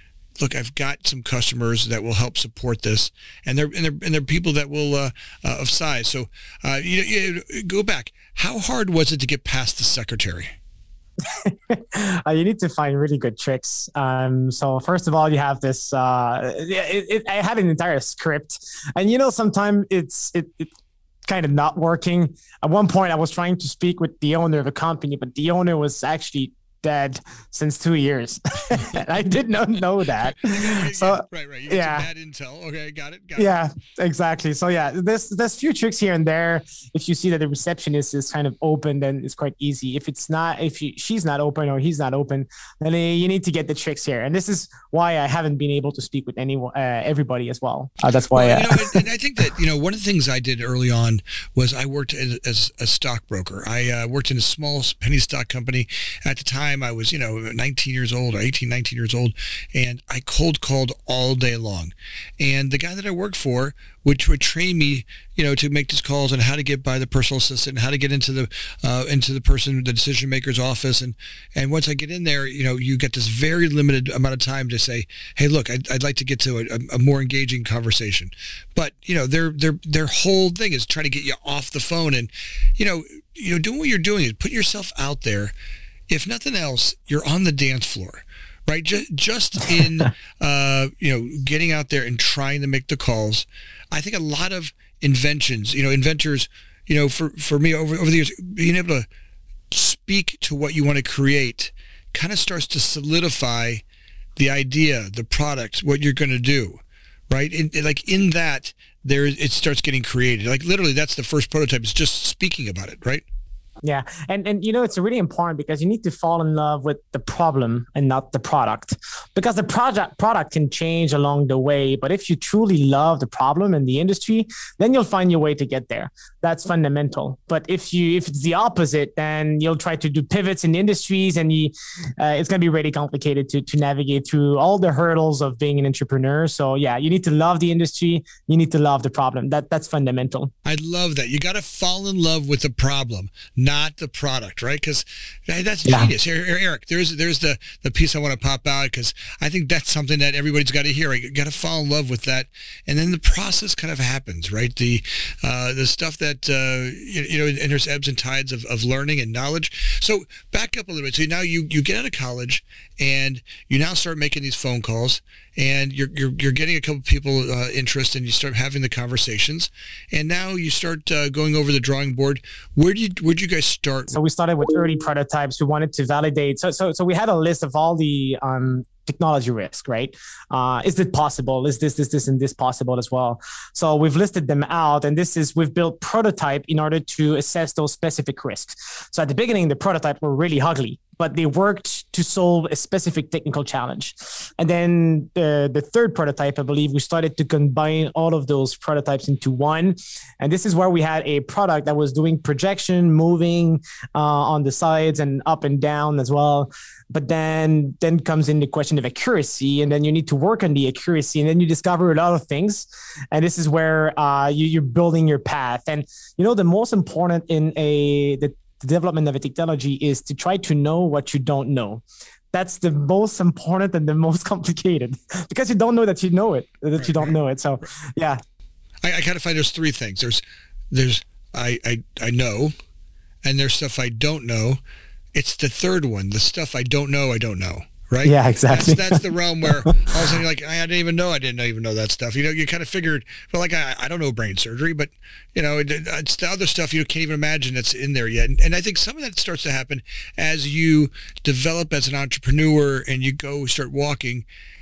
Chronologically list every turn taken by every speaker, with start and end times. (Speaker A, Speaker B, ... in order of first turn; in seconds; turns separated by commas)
Speaker A: 0.4-10.5, Speaker B: 11.2-20.7, Speaker B: 21.2-32.1, Speaker A: 30.1-33.5, Speaker B: 33.4-49.0, Speaker A: 48.2-85.5, Speaker A: 86.1-99.1, Speaker A: 99.7-103.8, Speaker A: 104.4-113.2, Speaker B: 113.8-140.5, Speaker A: 140.6-174.1, Speaker B: 145.8-146.1, Speaker B: 174.1-228.4, Speaker A: 227.0-227.3, Speaker A: 229.0-232.7, Speaker A: 233.4-234.8, Speaker A: 235.3-254.4, Speaker B: 238.2-239.2